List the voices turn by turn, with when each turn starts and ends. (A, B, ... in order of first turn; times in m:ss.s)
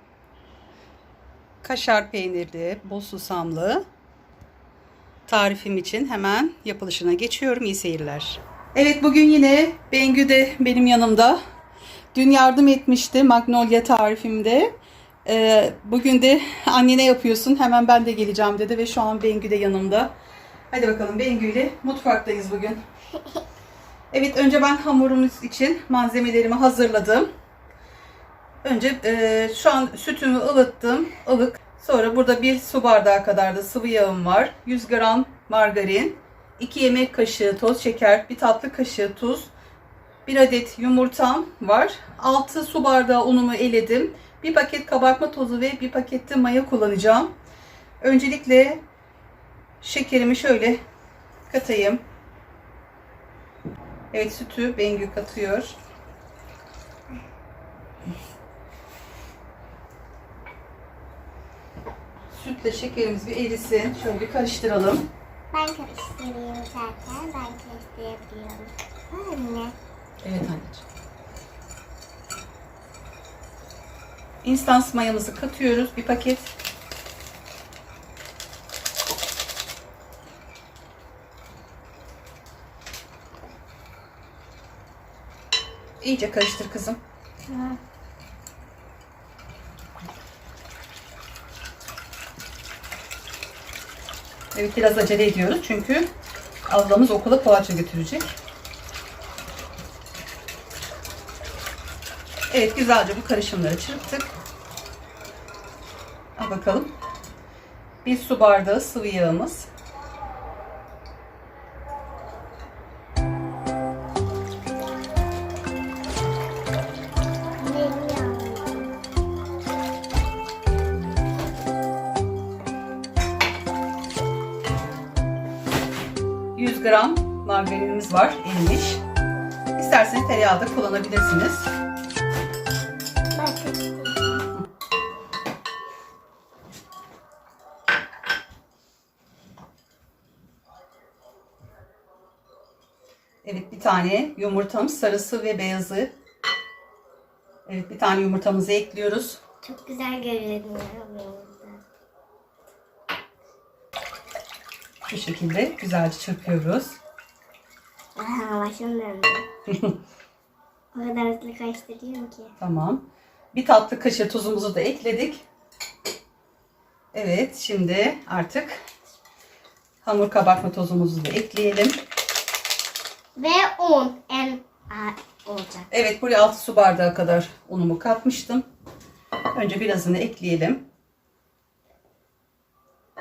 0:01.6-0:03.8 A
0:05.3-0:11.4 A
0:12.1-0:14.8 A
0:15.3-0:20.1 A
0:20.7-0:22.8 A
0:24.1-0:27.3 A
0:28.6-0:39.5 A
0:40.3-0:47.3 A
0:48.0-0:48.8 A
0:49.8-0:50.8 A
0:51.5-0:52.0 A
0:54.1-0:55.8 A
1:02.3-1:05.0 A
1:05.5-1:09.8 B
1:10.2-1:10.8 A
1:14.4-1:16.5 A
1:26.0-1:27.0 A
1:27.5-1:27.8 B
1:34.5-1:36.1 A
1:36.7-1:38.2 A
1:42.5-1:44.3 A
1:46.4-1:46.9 A
1:48.0-1:49.7 A
1:57.6-1:59.0 B
2:06.6-2:09.0 A
2:09.8-2:11.7 A
2:13.4-2:14.5 B
2:23.4-2:26.1 A
2:27.7-2:29.4 A
2:29.6-2:31.8 B
2:35.1-2:37.0 A
2:38.2-2:39.5 B
2:39.7-2:40.0 A
2:41.0-2:42.5 B
2:42.6-2:45.4 A
2:47.1-2:48.8 A
2:50.0-2:52.0 A
2:53.4-2:55.9 B
2:55.9-2:58.6 A
2:59.5-3:00.8 A